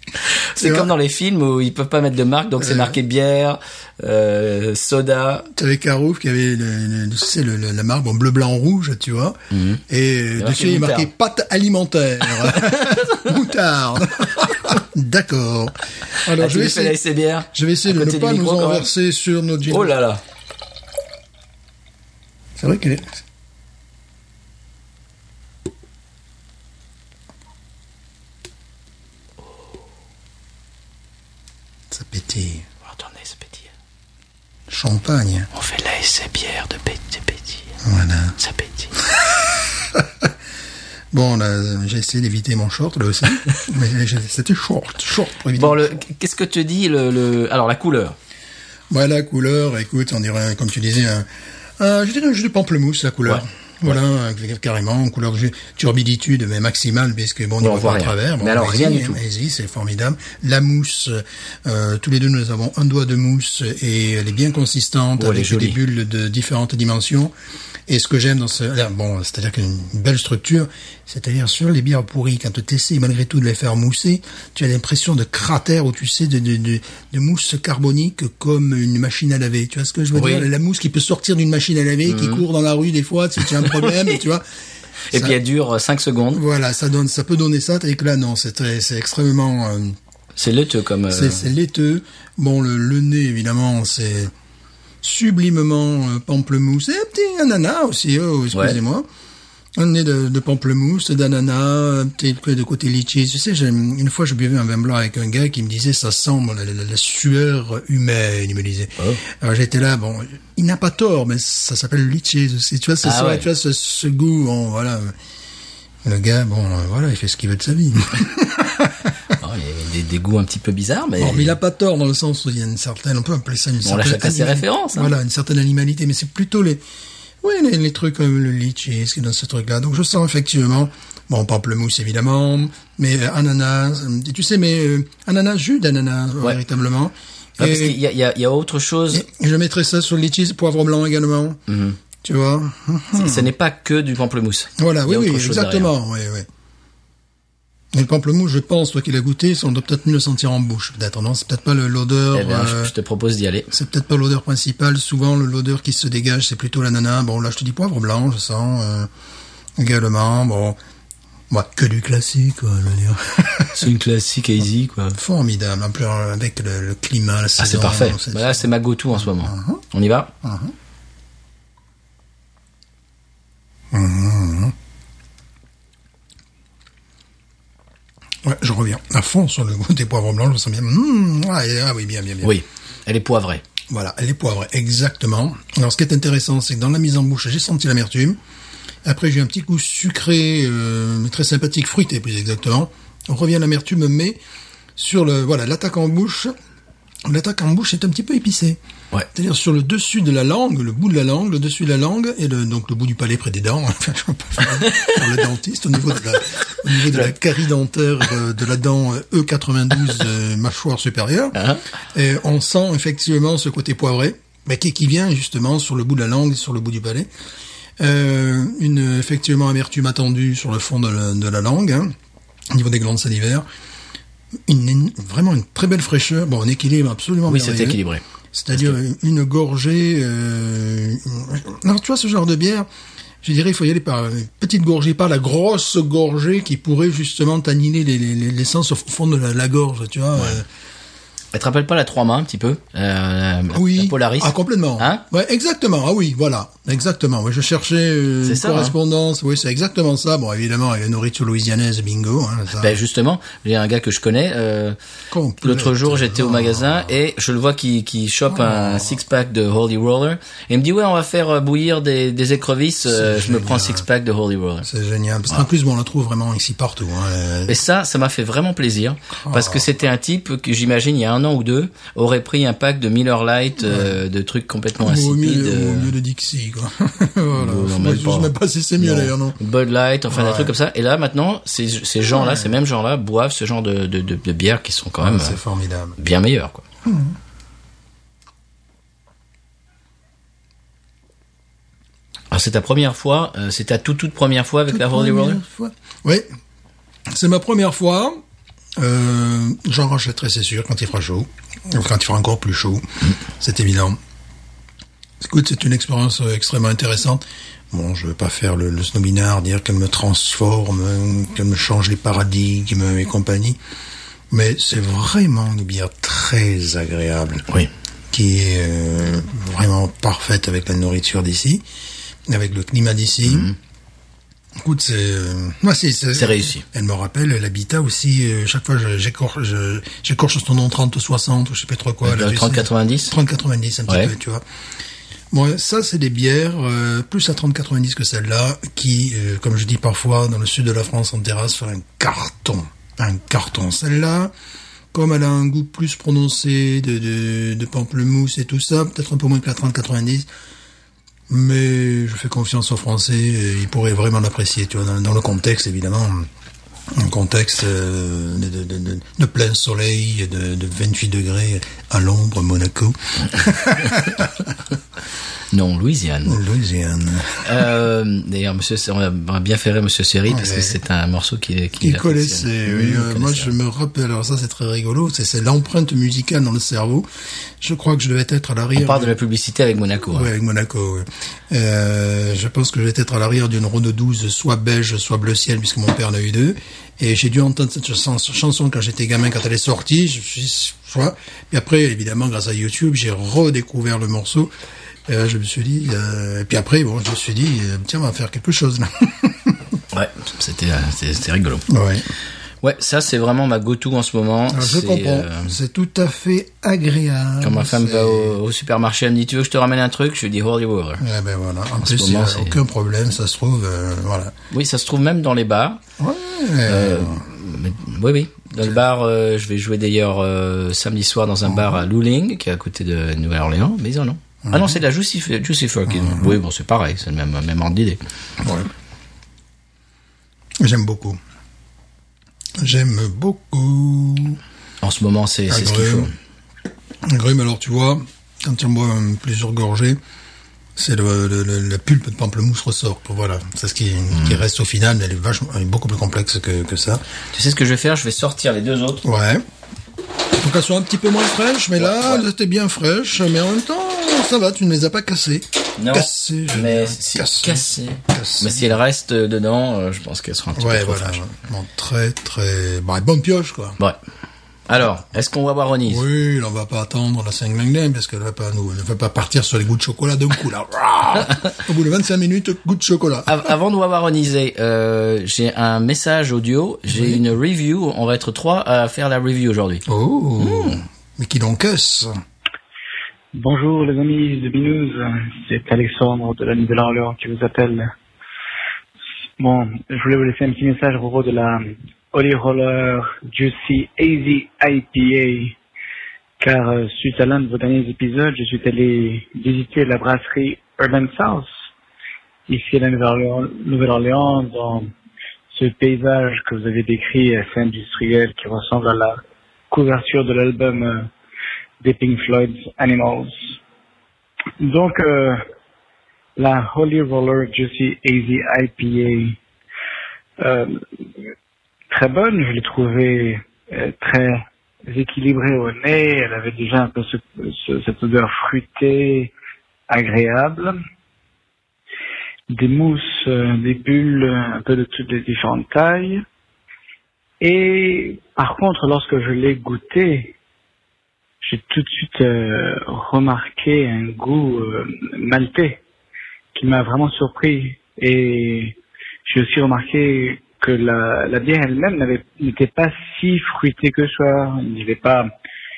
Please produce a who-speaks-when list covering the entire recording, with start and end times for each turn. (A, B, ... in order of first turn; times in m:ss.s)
0:00.5-0:05.5 A
0:00.6-0:00.9 B
0:02.6-0:03.0 B
0:05.5-0:09.4 B
0:09.5-0:09.8 A
0:09.9-0:17.0 B
0:10.4-0:11.1 A
0:12.6-0:13.2 A
0:16.3-0:18.9 A
0:17.5-0:19.9 B
0:19.7-0:20.2 A
0:22.6-0:23.1 B
0:31.9-0:32.6 B
0:32.8-0:33.7 A
0:34.7-0:35.5 B
0:35.5-0:37.6 A
0:37.8-0:38.4 B
0:38.4-0:38.9 A
0:39.9-0:40.3 B
0:41.1-0:46.0 B
0:45.6-0:48.2 A
0:48.9-0:51.3 B
0:51.8-1:07.3 B
0:57.6-0:59.2 A
1:05.2-1:05.8 A
1:07.9-1:24.4 B
1:20.1-1:20.5 A
1:22.0-1:22.4 A
1:23.6-1:24.2 A
1:25.1-1:26.4 A
1:26.3-1:30.0 B
1:30.4-1:31.4 A
1:31.1-1:34.3 B
1:35.0-1:39.0 B
1:38.5-1:38.8 A
1:39.8-1:55.1 B
1:53.0-1:53.5 A
1:56.0-1:59.1 B
1:59.3-2:01.6 A
2:01.2-2:06.8 B
2:03.8-2:05.1 A
2:07.4-2:18.0 B
2:17.6-2:19.2 A
2:19.1-2:21.6 B
2:21.7-2:22.0 A
2:22.2-2:23.5 B
2:23.2-2:25.9 A
2:24.8-2:26.5 B
2:27.9-2:32.9 B
2:32.3-2:33.7 A
2:33.7-2:39.1 B
2:39.8-2:40.8 B
2:41.5-2:43.8 B
2:43.7-2:45.2 A
2:45.1-2:49.8 B
2:47.6-2:50.3 A
2:50.4-2:50.7 B
2:53.9-2:54.7 B
2:58.4-3:02.6 B
3:02.4-3:03.6 A
3:03.9-3:08.4 B
3:09.0-3:14.4 B
3:15.0-3:16.5 B
3:17.2-3:18.8 B
3:19.3-3:31.6 B
3:24.9-3:25.1 A
3:31.5-3:31.8 A
3:32.1-3:37.3 B
3:38.0-3:42.1 B
3:42.7-3:43.6 B
3:44.7-3:48.0 B
3:47.5-3:48.2 A
3:48.5-3:52.9 B
3:53.4-4:00.6 B
4:01.5-4:05.2 A
4:03.7-4:13.0 B
4:08.4-4:08.9 A
4:12.8-4:15.0 A
4:15.3-4:17.1 B
4:15.6-4:24.9 A
4:18.5-4:19.2 B
4:23.0-4:24.0 B
4:24.8-4:27.8 B
4:27.7-4:36.1 A
4:29.4-4:29.9 B
4:33.8-4:34.2 B
4:35.0-4:39.6 B
4:37.5-4:45.6 A
4:40.3-4:40.7 B
4:42.2-4:42.7 B
4:45.2-4:46.2 B
4:46.2-4:46.8 A
4:47.0-4:47.3 B
4:52.5-4:55.6 A
4:54.9-4:56.5 B
4:57.3-4:58.4 B
4:59.0-5:04.2 B
5:05.4-5:13.8 B
5:14.5-5:17.6 B
5:18.3-5:21.8 B
5:22.5-5:23.7 B
5:23.5-5:23.7 A
5:24.8-5:34.6 B
5:26.3-5:26.8 A
5:32.2-5:33.3 A
5:35.5-5:44.5 B
5:45.1-5:50.5 B
5:51.5-5:56.5 B
5:57.1-6:04.7 B
6:05.7-6:06.6 A
6:06.4-6:07.9 B
6:07.6-6:13.7 A
6:10.5-6:11.0 B
6:12.0-6:17.3 B
6:17.8-6:19.4 B
6:19.0-6:20.5 A
6:20.3-6:34.7 B
6:35.3-6:40.0 B
6:40.1-6:41.8 A
6:41.9-6:42.2 B
6:42.8-6:45.7 A
6:44.7-6:48.6 B
6:47.6-6:51.2 A
6:51.2-6:54.5 B
6:52.0-6:52.8 A
6:54.7-6:56.0 A
6:56.2-6:57.4 B
6:56.8-7:08.2 A
7:01.6-7:02.0 B
7:04.6-7:05.0 B
7:06.1-7:06.5 B
7:08.6-7:08.9 B
7:10.8-7:11.4 B
7:12.8-7:14.6 B
7:15.0-7:16.3 A
7:15.7-7:16.3 B
7:17.2-7:20.2 B
7:21.0-7:27.2 B
7:24.3-7:24.6 A
7:27.5-7:29.2 A
7:29.2-7:29.6 B
7:30.6-7:38.9 B
7:32.0-7:32.4 A
7:36.0-7:41.4 A
7:40.7-7:44.0 B
7:44.9-7:46.2 A
7:46.1-7:53.7 B
7:53.5-8:00.0 A
7:57.1-7:57.4 B
8:00.0-8:02.3 B
8:00.6-8:01.0 A
8:03.5-8:08.1 C
8:09.6-8:15.7 C
8:16.6-8:21.7 C
8:22.7-8:25.1 C
8:25.7-8:29.4 C
8:29.9-8:31.3 C
8:32.0-8:33.6 C
8:34.8-8:35.6 C
8:36.6-8:39.6 C
8:40.6-8:41.0 C
8:42.1-8:49.5 C
8:50.1-8:51.0 C
8:52.7-8:56.4 C
8:57.6-9:00.5 C
9:01.6-9:06.0 C
9:06.7-9:08.9 C
9:09.4-9:15.5 C